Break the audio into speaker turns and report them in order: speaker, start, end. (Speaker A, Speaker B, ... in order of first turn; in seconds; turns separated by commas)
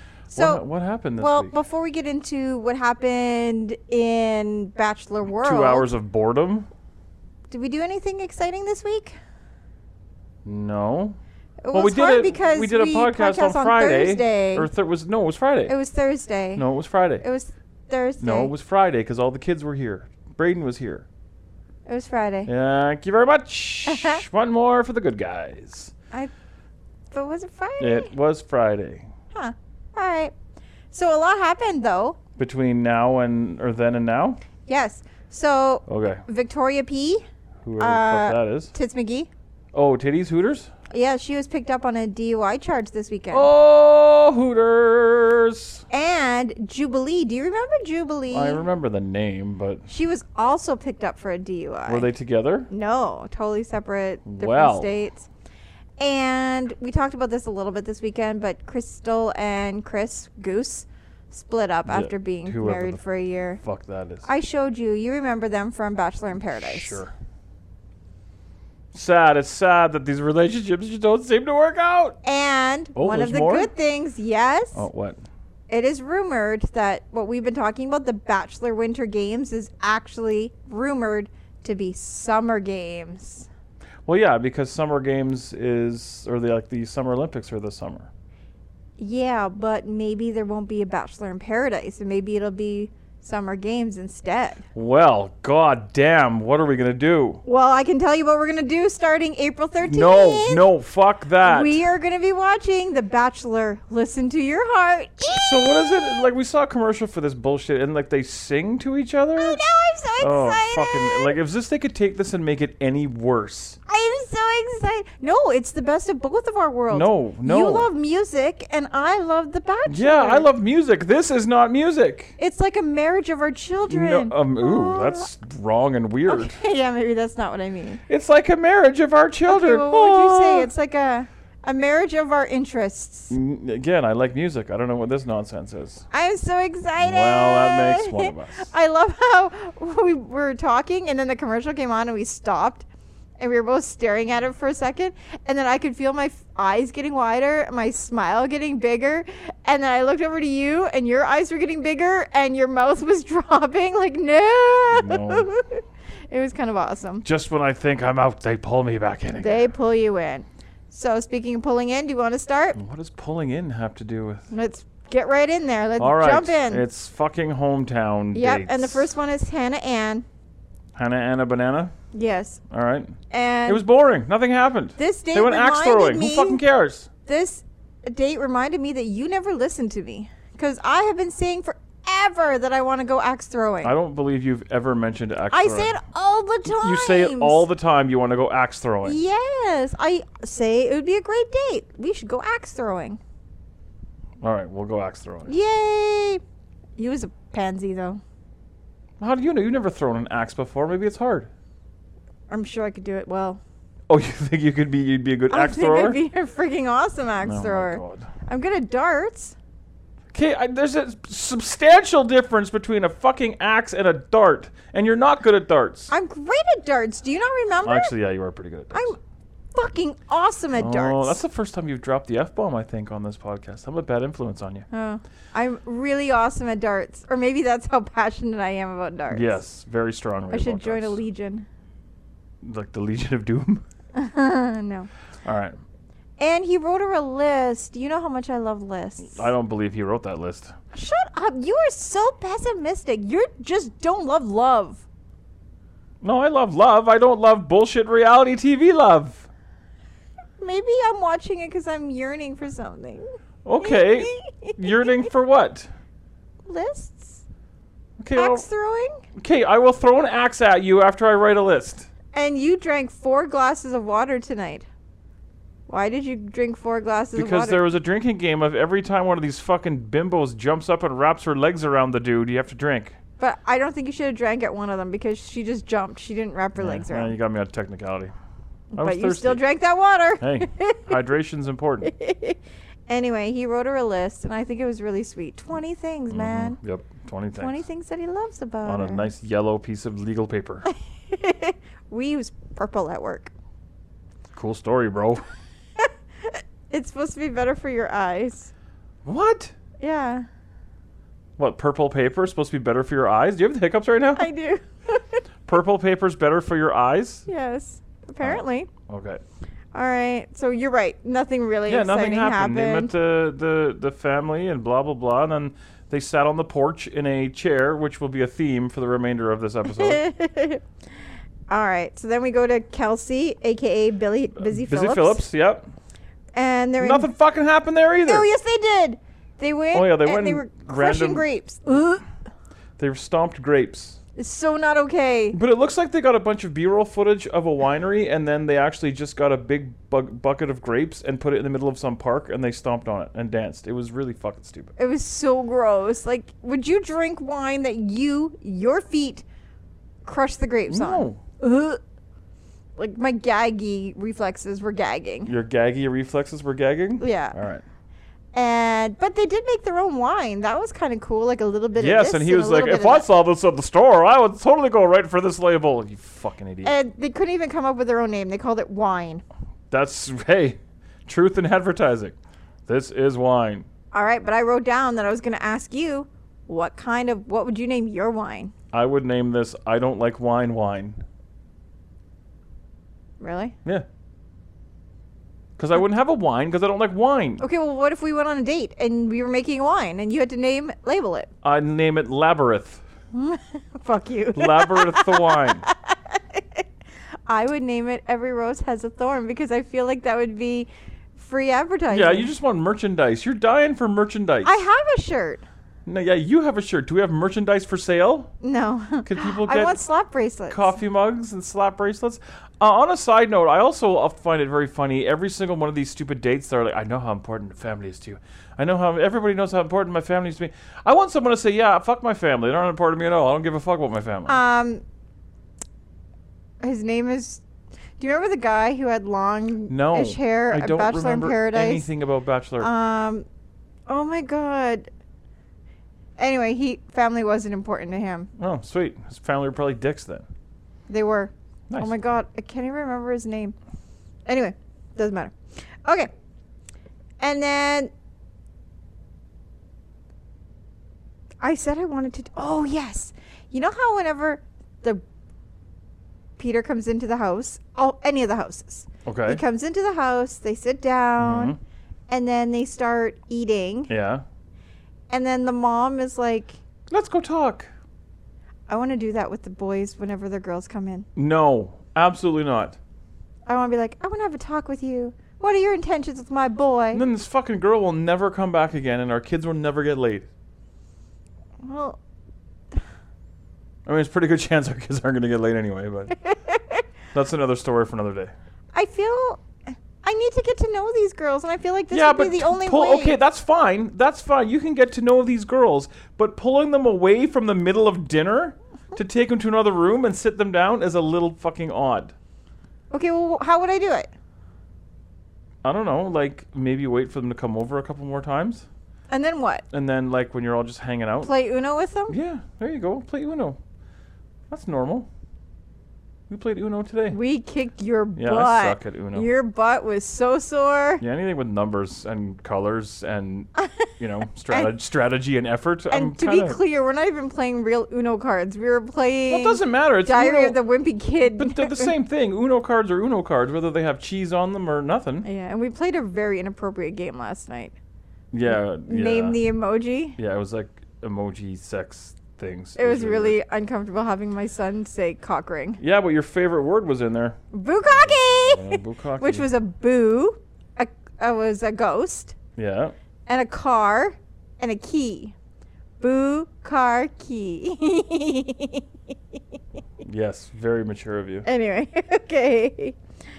Speaker A: 0.3-0.6, Speaker B: 0.3-1.6, Speaker A: 1.2-5.9, Speaker B: 5.4-6.7, Speaker A: 7.5-9.2, Speaker B: 10.4-11.2, Speaker A: 11.6-14.7, Speaker B: 11.7-15.7, Speaker A: 15.7-16.6, Speaker B: 16.6-17.2, Speaker A: 17.2-18.5, Speaker B: 18.2-21.1, Speaker A: 21.9-22.5, Speaker B: 22.4-25.9, Speaker A: 23.9-24.2, Speaker A: 27.1-28.1, Speaker B: 27.8-29.1, Speaker A: 29.3-30.3, Speaker A: 30.9-32.2, Speaker B: 32.4-34.4, Speaker A: 34.7-37.2, Speaker B: 35.9-36.2, Speaker B: 37.6-38.7, Speaker A: 37.8-39.3, Speaker B: 39.7-40.7, Speaker A: 40.9-43.5, Speaker B: 43.3-45.8, Speaker A: 45.9-48.6, Speaker B: 48.3-49.9, Speaker A: 49.9-52.1, Speaker B: 51.9-52.7, Speaker A: 52.7-55.3, Speaker B: 54.3-54.9, Speaker A: 56.0-63.6, Speaker B: 61.9-63.0, Speaker B: 63.6-64.2, Speaker A: 64.2-67.0, Speaker B: 66.5-67.1, Speaker B: 68.9-72.2, Speaker A: 72.2-74.8, Speaker B: 72.9-73.7, Speaker B: 74.7-75.2, Speaker A: 75.7-83.5, Speaker B: 84.0-88.1, Speaker A: 89.0-94.6, Speaker B: 94.7-97.4, Speaker A: 97.4-100.7, Speaker B: 99.8-101.8, Speaker A: 101.4-106.2, Speaker B: 105.3-109.6, Speaker A: 109.4-111.3, Speaker B: 110.2-113.8, Speaker A: 113.9-120.5, Speaker B: 116.9-117.9, Speaker B: 119.8-122.3, Speaker A: 122.4-125.3, Speaker B: 123.9-126.6, Speaker A: 126.3-128.0, Speaker B: 128.1-130.7, Speaker A: 129.4-133.3, Speaker B: 133.3-136.0, Speaker A: 136.1-142.8, Speaker B: 137.0-138.7, Speaker A: 143.4-157.2, Speaker B: 154.9-155.5, Speaker B: 157.2-159.7, Speaker A: 159.4-162.8, Speaker B: 162.8-164.5, Speaker A: 164.5-166.8, Speaker B: 166.0-169.1, Speaker A: 168.3-170.2, Speaker B: 170.9-171.9, Speaker A: 172.1-172.6, Speaker B: 172.7-177.1, Speaker A: 173.3-173.8, Speaker A: 175.0-176.6, Speaker A: 177.2-183.9, Speaker B: 183.8-186.0, Speaker A: 185.5-187.6, Speaker B: 186.6-189.2, Speaker A: 189.0-193.2, Speaker B: 194.4-195.5, Speaker A: 195.5-196.4, Speaker A: 197.0-198.2, Speaker B: 199.2-201.5, Speaker A: 202.5-203.6, Speaker B: 204.1-206.2, Speaker A: 205.5-209.6, Speaker B: 207.4-208.3, Speaker B: 210.3-216.1, Speaker A: 216.1-218.1, Speaker B: 217.8-219.1, Speaker A: 218.9-219.2, Speaker A: 219.7-221.4, Speaker B: 220.8-224.9, Speaker A: 224.9-229.6, Speaker B: 229.3-231.2, Speaker A: 230.5-231.7, Speaker B: 232.6-233.8, Speaker A: 234.1-235.1, Speaker B: 235.4-235.8, Speaker A: 236.4-239.5, Speaker B: 239.2-240.7, Speaker A: 240.9-245.0, Speaker B: 246.2-249.5, Speaker A: 250.6-253.2, Speaker B: 253.6-255.9, Speaker A: 253.8-255.1, Speaker A: 256.7-257.4, Speaker B: 258.2-258.6, Speaker A: 258.3-259.2, Speaker B: 259.4-262.1, Speaker A: 262.3-264.9, Speaker A: 265.9-267.9, Speaker B: 267.3-273.2, Speaker A: 273.4-277.3, Speaker B: 276.8-278.3, Speaker A: 278.9-281.1, Speaker B: 278.9-279.6, Speaker B: 280.4-282.1, Speaker A: 282.0-286.8, Speaker B: 286.3-287.8, Speaker A: 287.6-289.2, Speaker B: 288.8-290.9, Speaker A: 290.9-293.5, Speaker B: 294.5-295.4, Speaker A: 296.0-298.7, Speaker B: 299.2-299.7, Speaker A: 300.0-300.4, Speaker B: 301.6-304.5, Speaker A: 304.4-305.4, Speaker B: 305.6-307.5, Speaker A: 307.5-308.9, Speaker B: 308.4-309.4, Speaker A: 309.9-313.1, Speaker B: 311.9-320.2, Speaker A: 319.9-320.8, Speaker A: 321.7-325.4, Speaker B: 324.6-325.9, Speaker A: 326.5-327.3, Speaker B: 327.0-328.5, Speaker A: 328.2-332.2, Speaker B: 329.9-331.5, Speaker B: 333.0-334.2, Speaker A: 334.4-335.6, Speaker B: 335.5-344.9, Speaker A: 345.0-349.4, Speaker A: 350.2-352.0, Speaker B: 350.9-351.4, Speaker A: 353.0-355.5, Speaker B: 355.4-357.8, Speaker A: 357.2-357.6, Speaker A: 358.5-363.2, Speaker B: 361.9-366.9, Speaker A: 366.8-369.4, Speaker B: 369.9-372.3, Speaker B: 372.9-373.9, Speaker A: 374.1-378.7, Speaker B: 378.9-381.2, Speaker A: 383.4-383.8, Speaker B: 385.8-387.6, Speaker A: 387.6-391.5, Speaker B: 391.6-393.0, Speaker A: 393.3-396.8, Speaker B: 394.5-395.9, Speaker A: 397.5-402.5, Speaker B: 402.1-404.8, Speaker A: 404.6-405.6, Speaker B: 406.1-408.5, Speaker A: 408.6-410.9, Speaker B: 409.2-410.0, Speaker B: 410.7-424.6, Speaker A: 424.5-425.0, Speaker A: 426.8-427.6, Speaker A: 428.2-432.1, Speaker B: 429.9-432.9, Speaker A: 432.8-433.4, Speaker A: 434.1-435.1, Speaker A: 436.4-438.5, Speaker B: 438.6-440.5, Speaker A: 441.1-443.8, Speaker A: 444.4-446.3, Speaker A: 447.4-448.1, Speaker A: 451.6-455.2, Speaker A: 456.6-461.8, Speaker B: 459.2-459.6, Speaker B: 461.4-461.8, Speaker A: 462.3-464.1, Speaker B: 464.1-464.4, Speaker A: 465.3-466.8, Speaker B: 467.1-467.9, Speaker A: 468.9-471.3, Speaker B: 471.4-473.0, Speaker A: 473.6-477.2, Speaker B: 477.1-480.5, Speaker A: 481.8-482.2, Speaker B: 484.1-486.4, Speaker A: 486.4-487.0, Speaker B: 487.3-488.5, Speaker A: 488.9-493.4, Speaker B: 492.1-502.3, Speaker A: 503.1-504.3, Speaker B: 505.8-508.9, Speaker A: 509.3-509.8, Speaker B: 509.9-511.5, Speaker A: 511.4-512.4, Speaker B: 512.3-513.8, Speaker B: 514.7-515.3, Speaker B: 516.5-517.4, Speaker A: 517.3-521.2, Speaker B: 518.4-519.5, Speaker B: 521.2-526.8, Speaker A: 523.8-524.1, Speaker A: 526.1-532.1, Speaker B: 529.5-530.8, Speaker B: 531.4-535.5, Speaker A: 535.4-538.0, Speaker B: 538.5-539.6, Speaker A: 539.0-540.4, Speaker B: 540.4-543.6, Speaker A: 543.0-546.0, Speaker B: 546.0-549.7, Speaker A: 547.7-552.6, Speaker B: 552.8-553.1, Speaker A: 553.5-555.5, Speaker A: 556.2-559.1, Speaker B: 560.2-561.7, Speaker A: 561.6-563.2